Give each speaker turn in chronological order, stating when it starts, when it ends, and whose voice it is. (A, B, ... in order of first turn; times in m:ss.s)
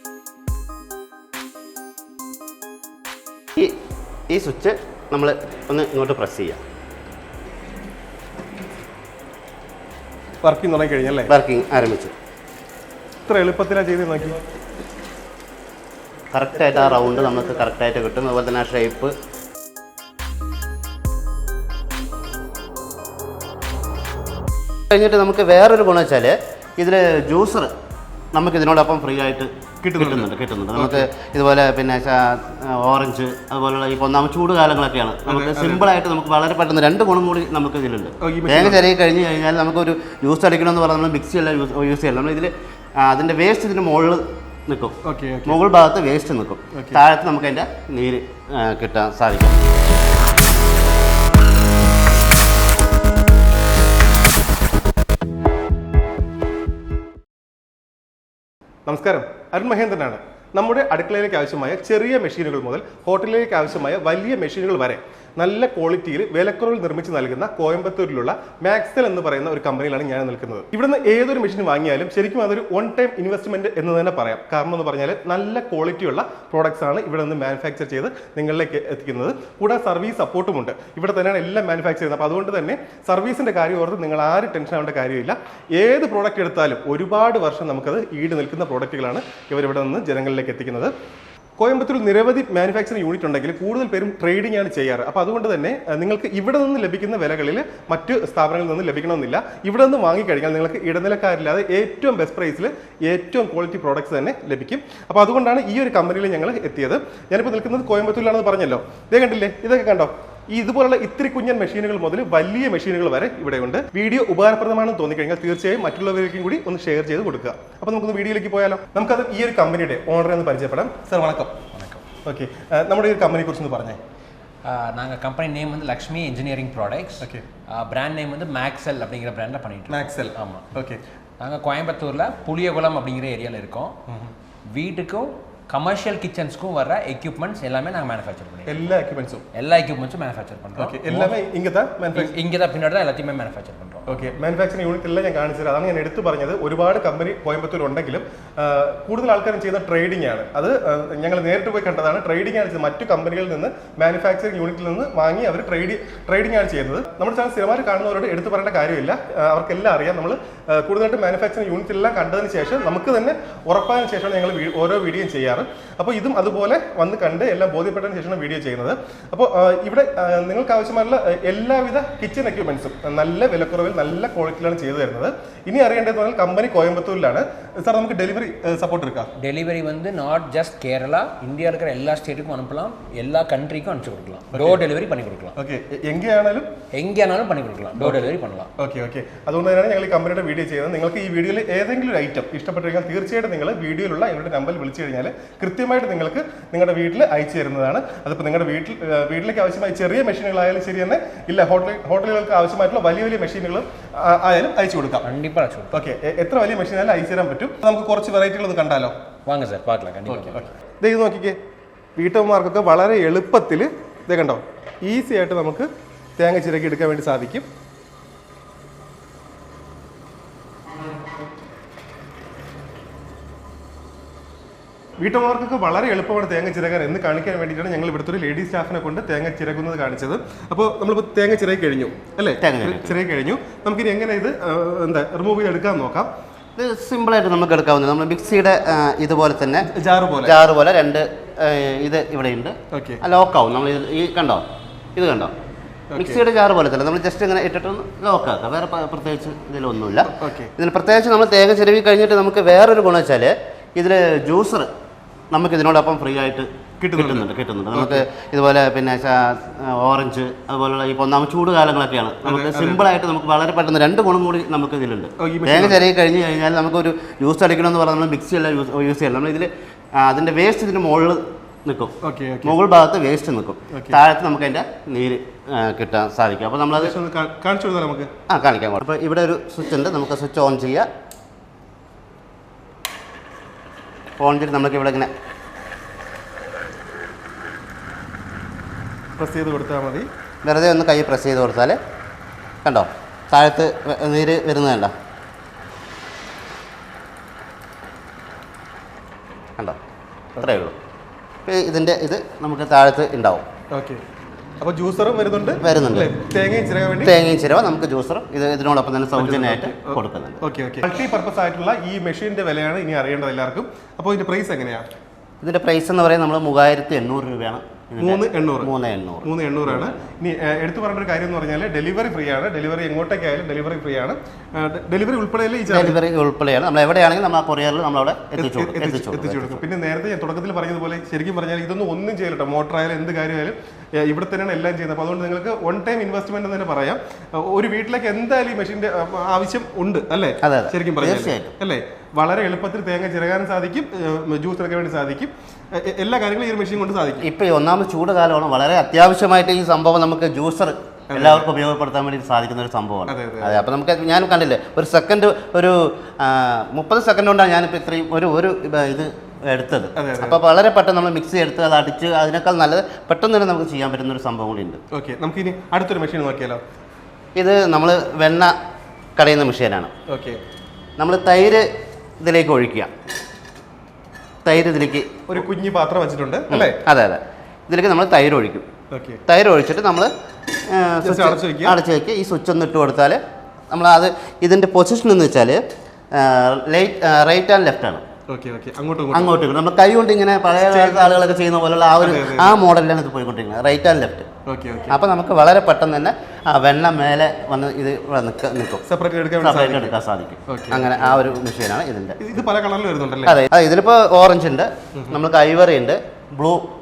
0:04.3-0:06.6 A
0:10.4-0:11.3 B
0:11.3-0:12.1 A
0:13.3-0:14.4 B
0:16.3-0:19.1 A
0:24.9-0:27.7 A
0:28.3-0:49.7 A
0:29.8-0:31.1 B
0:35.3-0:35.9 B
0:38.2-0:38.8 B
0:45.0-0:45.6 B
0:46.7-0:47.0 B
0:58.9-1:30.9 B
1:31.6-2:01.6 B
2:01.7-2:02.0 C
2:02.2-2:04.0 B
2:04.6-2:10.7 C
2:09.9-2:11.0 B
2:11.4-2:14.0 C
2:14.7-2:18.9 C
2:18.7-2:19.4 B
2:19.5-2:21.4 C
2:20.8-2:22.3 B
2:22.1-2:24.3 C
2:24.1-2:59.3 B
2:59.4-3:05.5 C
3:04.5-3:04.8 B
3:05.6-3:06.7 B
3:06.9-3:08.7 C
3:08.0-3:08.3 B
3:08.8-3:25.2 B
3:25.2-3:26.1 C
3:25.9-3:29.2 B
3:29.5-3:30.7 C
3:30.3-3:31.6 B
3:32.2-3:37.7 B
3:45.2-3:56.3 B
3:52.6-3:53.2 A
3:56.8-3:59.9 A
3:59.8-4:00.6 B
4:00.4-4:04.6 A
4:02.9-4:03.2 B
4:05.2-4:05.5 A
4:06.1-4:06.4 B
4:06.2-4:14.9 A
4:10.3-4:10.7 B
4:15.5-4:37.2 A
4:17.0-4:18.2 B
4:22.4-4:23.0 B
4:25.4-4:26.0 B
4:32.2-4:32.8 B
4:33.9-4:34.2 B
4:37.0-4:38.3 B
4:38.5-4:41.1 A
4:44.4-4:45.3 A
4:49.4-4:50.3 B
4:50.6-4:52.0 A
4:52.8-4:55.1 A
5:00.6-5:01.0 A
5:01.7-5:03.7 A
5:03.9-5:04.2 B
5:04.8-5:07.3 B
5:05.8-5:06.3 A
5:07.2-5:10.6 A
5:09.4-5:15.0 B
5:15.6-5:20.1 A
5:18.2-5:18.9 B
5:19.4-5:26.2 B
5:25.9-5:29.8 A
5:28.6-5:47.5 B
5:40.6-5:41.8 A
5:47.4-6:05.0 A
5:51.3-5:51.7 B
5:53.3-5:53.9 B
6:00.2-6:00.6 B
6:05.1-6:06.8 B
6:07.6-6:08.8 A
6:09.4-6:10.1 A
6:10.3-6:10.6 B
6:11.2-6:11.9 A
6:12.4-6:13.1 A
6:14.6-6:15.6 A
6:15.5-6:17.0 B
6:16.7-6:18.9 A
6:19.1-6:19.4 B
6:19.5-6:20.3 A
6:20.9-6:25.8 A
6:21.2-6:22.0 B
6:26.3-6:28.2 A
6:28.5-6:29.6 B
6:29.3-6:34.5 A
6:30.8-6:31.6 B
6:32.2-6:32.8 B
6:34.7-6:35.2 B
6:35.1-6:39.0 A
6:39.1-6:40.2 B
6:39.6-6:42.5 A
6:40.7-6:41.4 B
6:42.4-6:43.6 B
6:43.4-6:46.9 A